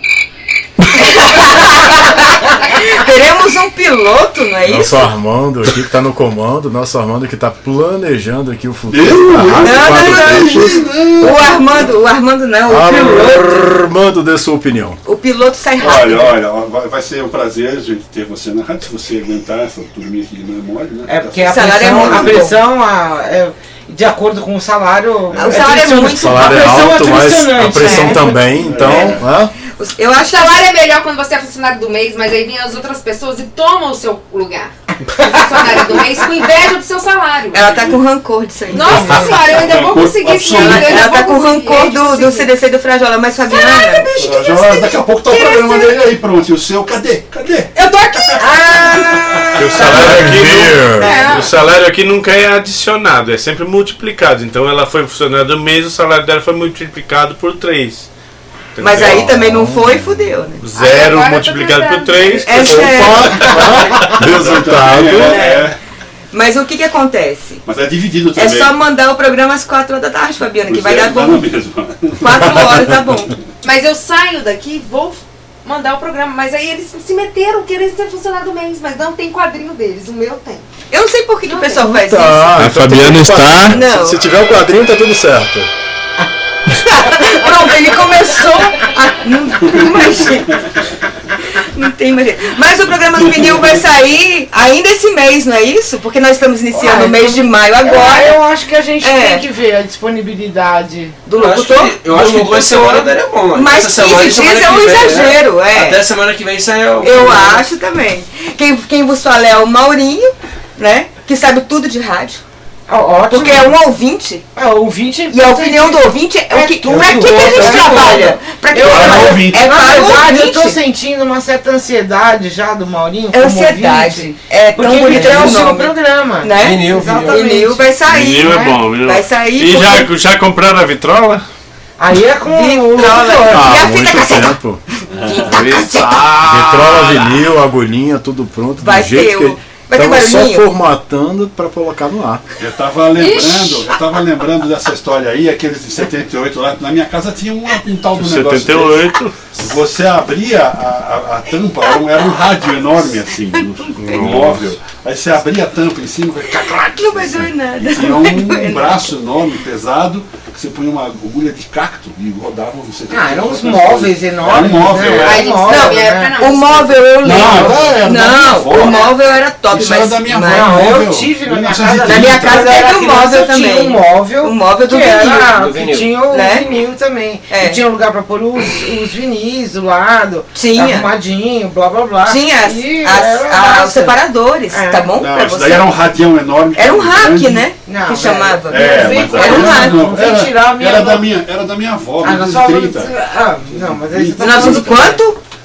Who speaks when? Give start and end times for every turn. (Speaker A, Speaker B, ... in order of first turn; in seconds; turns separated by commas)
Speaker A: 0.9-5.1, Speaker B: 4.7-10.8, Speaker C: 8.9-11.9, Speaker A: 9.6-13.7, Speaker B: 12.7-15.0, Speaker A: 15.0-16.4, Speaker C: 15.8-22.5, Speaker D: 21.1-28.9, Speaker A: 21.5-22.6, Speaker C: 25.3-25.7, Speaker A: 25.4-26.9, Speaker B: 25.9-29.5, Speaker A: 27.7-28.3, Speaker C: 28.4-29.2, Speaker A: 29.8-30.8, Speaker E: 30.2-37.9, Speaker A: 37.5-39.6, Speaker E: 38.7-42.5, Speaker D: 38.8-39.3, Speaker C: 39.3-41.1, Speaker A: 40.5-44.1, Speaker E: 43.5-44.4, Speaker C: 44.1-49.9, Speaker E: 45.3-45.9, Speaker E: 47.8-48.4, Speaker D: 48.4-49.9, Speaker F: 49.6-58.1, Speaker B: 49.8-51.1, Speaker E: 51.0-51.5, Speaker F: 58.7-59.3, Speaker A: 58.8-60.6, Speaker B: 59.0-60.4, Speaker F: 60.6-63.6, Speaker E: 60.8-62.6, Speaker A: 62.4-63.5, Speaker B: 62.6-65.4, Speaker C: 63.5-65.8, Speaker A: 65.2-65.7, Speaker A: 66.3-67.6, Speaker C: 67.6-68.7, Speaker A: 68.3-71.5, Speaker C: 70.7-72.8, Speaker A: 72.2-73.3, Speaker E: 73.6-80.6, Speaker A: 80.9-82.7, Speaker E: 81.5-82.0, Speaker B: 81.9-85.7, Speaker F: 82.6-83.8, Speaker A: 83.7-84.2, Speaker A: 86.8-90.6, Speaker A: 91.5-98.4, Speaker C: 93.2-93.8, Speaker D: 96.7-101.2, Speaker A: 99.0-99.4, Speaker A: 101.2-106.0, Speaker G: 101.3-107.6, Speaker A: 107.0-112.4, Speaker D: 112.9-113.7, Speaker A: 113.3-114.4, Speaker D: 114.5-128.8, Speaker A: 115.3-120.8, Speaker C: 116.9-118.2, Speaker C: 118.8-120.0, Speaker A: 123.3-130.1, Speaker G: 126.6-127.4, Speaker F: 128.1-131.4, Speaker D: 132.0-133.8, Speaker A: 132.4-134.5, Speaker B: 133.5-134.8, Speaker C: 135.1-135.4, Speaker A: 135.2-136.4, Speaker F: 135.4-137.4, Speaker B: 136.4-142.4, Speaker A: 138.8-140.7, Speaker C: 142.6-165.6, Speaker E: 143.2-143.8, Speaker F: 148.2-149.5, Speaker F: 154.0-154.7, Speaker A: 154.0-154.4, Speaker A: 156.7-159.1, Speaker D: 163.1-166.4, Speaker E: 165.2-167.5, Speaker A: 165.6-170.9, Speaker C: 167.2-172.9, Speaker D: 167.5-167.9, Speaker D: 170.5-184.2, Speaker A: 172.1-175.4, Speaker G: 175.4-176.1, Speaker A: 176.3-176.7, Speaker A: 177.5-177.8, Speaker A: 180.5-181.1, Speaker A: 182.2-186.1, Speaker D: 184.7-185.1, Speaker C: 185.2-187.6, Speaker A: 186.7-190.1, Speaker D: 187.9-191.3, Speaker C: 188.7-193.2, Speaker D: 192.2-195.2, Speaker C: 193.7-195.2, Speaker A: 194.4-195.4